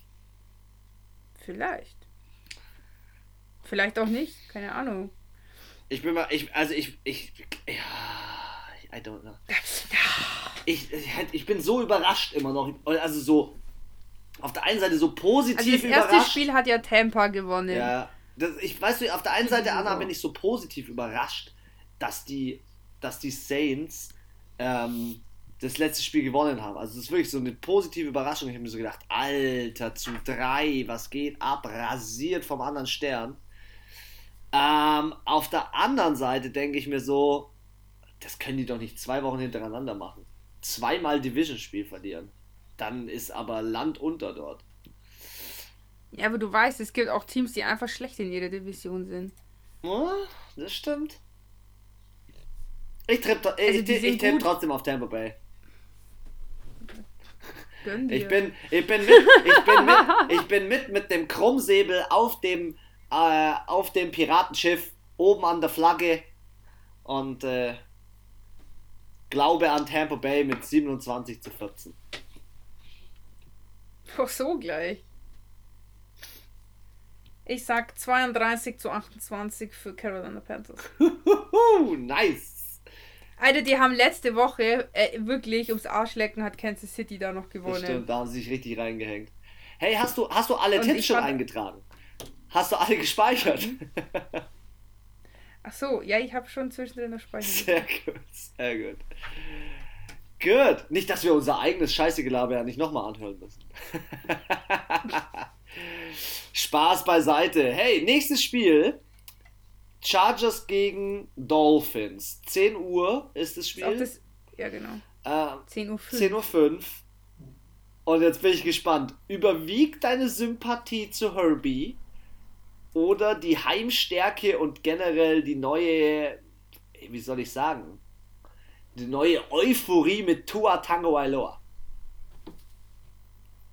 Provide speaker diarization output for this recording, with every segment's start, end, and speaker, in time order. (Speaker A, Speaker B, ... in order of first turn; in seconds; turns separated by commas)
Speaker A: 1.4-2.0, Speaker A: 3.6-5.1, Speaker B: 5.9-9.4, Speaker A: 9.5-10.6, Speaker B: 10.7-13.6, Speaker B: 14.4-16.4, Speaker A: 15.6-17.9, Speaker B: 17.7-33.4, Speaker A: 19.4-20.1, Speaker B: 34.5-37.5, Speaker B: 38.2-44.6, Speaker A: 46.1-49.3, Speaker B: 49.8-51.2, Speaker B: 53.1-55.4, Speaker A: 53.7-54.5, Speaker A: 57.8-58.5, Speaker B: 58.1-66.3, Speaker A: 59.1-60.3, Speaker B: 67.0-67.8, Speaker B: 69.3-72.0, Speaker A: 74.1-75.0, Speaker A: 77.5-80.9, Speaker B: 80.8-82.8, Speaker A: 83.4-88.0, Speaker B: 87.7-91.8, Speaker A: 90.7-91.4, Speaker B: 92.5-94.4, Speaker A: 93.5-93.8, Speaker A: 95.6-97.9, Speaker B: 97.4-99.0, Speaker B: 100.4-109.0, Speaker B: 110.0-114.1, Speaker A: 113.8-115.0, Speaker B: 115.2-117.0, Speaker A: 115.7-116.4, Speaker B: 118.0-122.0, Speaker B: 122.9-126.4, Speaker B: 126.9-128.0, Speaker B: 128.9-131.6